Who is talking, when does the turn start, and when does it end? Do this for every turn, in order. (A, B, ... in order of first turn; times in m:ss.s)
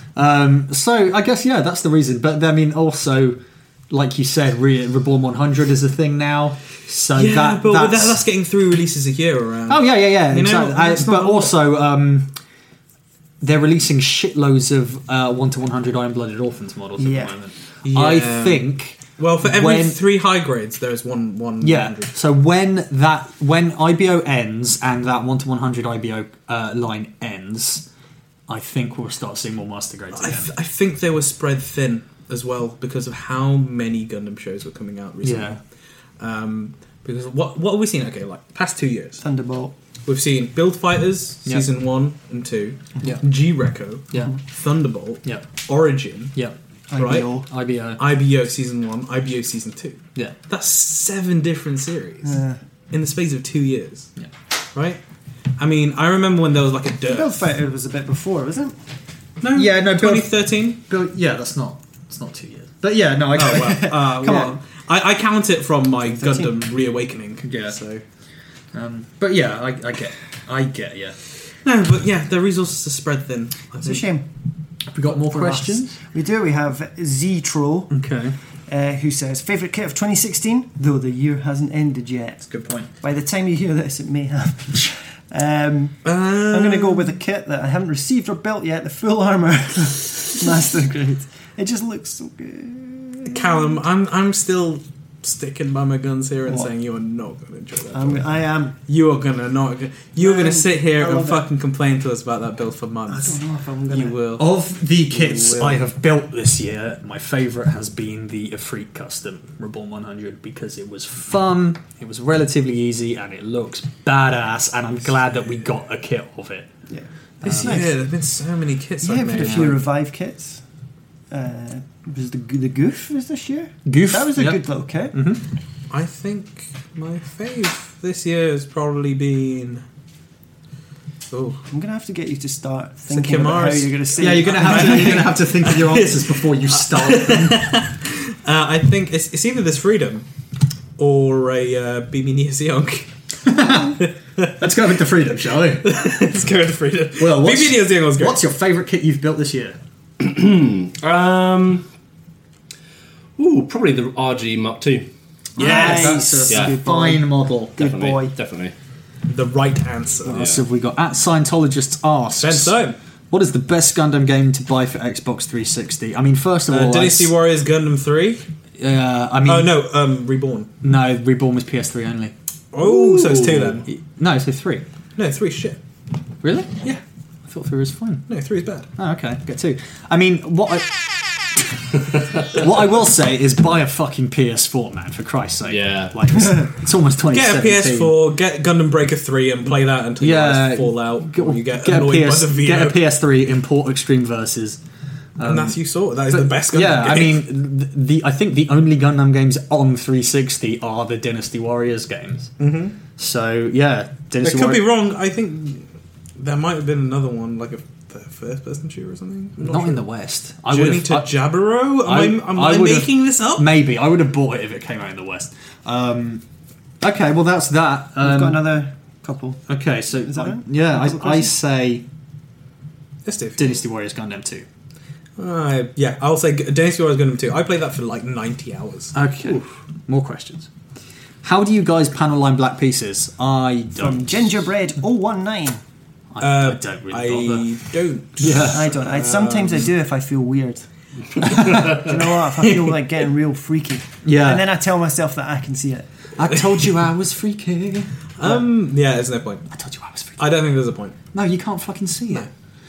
0:00.2-0:08.2 A
0:07.1-0:11.5 B
0:09.7-0:12.3 A
0:13.4-0:20.0 A
0:17.0-0:17.3 C
0:17.8-0:22.1 B
0:21.6-0:27.9 A
0:28.5-0:30.5 A
0:30.1-0:35.6 B
0:35.2-0:35.6 A
0:36.2-0:39.2 B
0:39.2-0:39.7 C
0:40.1-0:46.4 B
0:46.9-0:47.5 C
0:47.0-0:47.3 B
0:47.5-0:48.0 A
0:48.0-0:52.4 B
0:52.2-0:52.6 C
0:52.9-0:54.1 B
0:54.7-0:55.0 B
0:55.6-0:57.4 B
0:57.1-0:58.8 C
0:59.4-1:00.8 B
0:59.5-1:04.5 A
1:03.3-1:08.0 B
1:04.1-1:04.6 C
1:06.0-1:06.7 C
1:07.4-1:07.8 A
1:08.7-1:11.2 A
1:11.6-1:14.0 B
1:13.8-1:14.3 C
1:14.9-1:16.0 A
1:15.3-1:17.9 C
1:17.9-1:18.4 A
1:18.7-1:22.4 C
1:22.5-1:22.9 A
1:23.0-1:33.8 C
1:26.0-1:27.2 B
1:33.3-1:38.2 B
1:37.9-1:38.8 C
1:38.9-1:44.5 B
1:40.2-1:41.4 C
1:43.1-1:44.4 C
1:44.4-1:56.7 A
1:45.1-1:45.8 C
1:56.9-1:58.0 C
1:57.4-1:57.8 A
1:57.6-1:59.8 B
1:59.0-2:00.6 C
1:59.4-1:59.8 A
2:01.3-2:05.2 C
2:03.9-2:04.6 A
2:05.1-2:05.4 A
2:05.9-2:09.8 B
2:11.3-2:11.6 B
2:11.7-2:15.3 C
2:13.1-2:20.3 B
2:14.2-2:17.7 A
2:21.0-2:23.1 B
2:23.4-2:24.0 A
2:23.6-2:24.6 B
2:24.6-2:25.9 A
2:25.6-2:28.4 B
2:27.2-2:29.8 A
2:30.2-2:31.9 D
2:33.4-2:35.1 D
2:35.6-2:37.8 A
2:35.6-2:38.3 C
2:36.5-2:36.8 D
2:37.8-2:38.7 D
2:39.3-2:40.5 B
2:40.2-2:47.3 A
2:42.4-2:43.0 B
2:46.7-2:48.4 B
2:48.8-2:49.8 A
2:49.4-2:50.7 B
2:50.8-2:52.3 A
2:52.7-2:53.9 B
2:52.8-2:53.8 D
2:53.2-2:54.8 A
2:55.2-2:55.8 B
2:56.4-2:58.3 A
2:58.3-2:58.9 B
2:59.0-3:01.0 A
3:01.5-3:08.2 A
3:05.6-3:06.2 D
3:07.3-3:13.0 B
3:10.2-3:14.8 A
3:15.4-3:15.8 A
3:15.4-3:17.4 B
3:16.3-3:22.5 A
3:22.6-3:23.0 B
3:23.2-3:24.8 A
3:24.4-3:30.0 B
3:29.6-3:31.3 A
3:30.6-3:33.8 B
3:32.0-3:36.4 A
3:37.0-3:38.6 A
3:38.2-3:39.6 C
3:39.7-3:42.0 A
3:40.3-3:41.5 C
3:43.2-3:43.8 B
3:43.6-3:44.7 A
3:45.4-3:49.1 B
3:49.1-3:50.7 A
3:51.4-3:54.6 A
3:54.0-3:55.8 C
3:56.3-3:57.7 A
3:56.4-3:59.9 B
3:58.4-3:58.9 A
3:58.5-4:00.8 C
4:01.4-4:06.1 C
4:01.4-4:02.0 A
4:04.2-4:04.6 A
4:06.4-4:08.6 A
4:08.4-4:09.6 B
4:09.7-4:10.6 A
4:10.4-4:11.2 B
4:11.3-4:12.5 A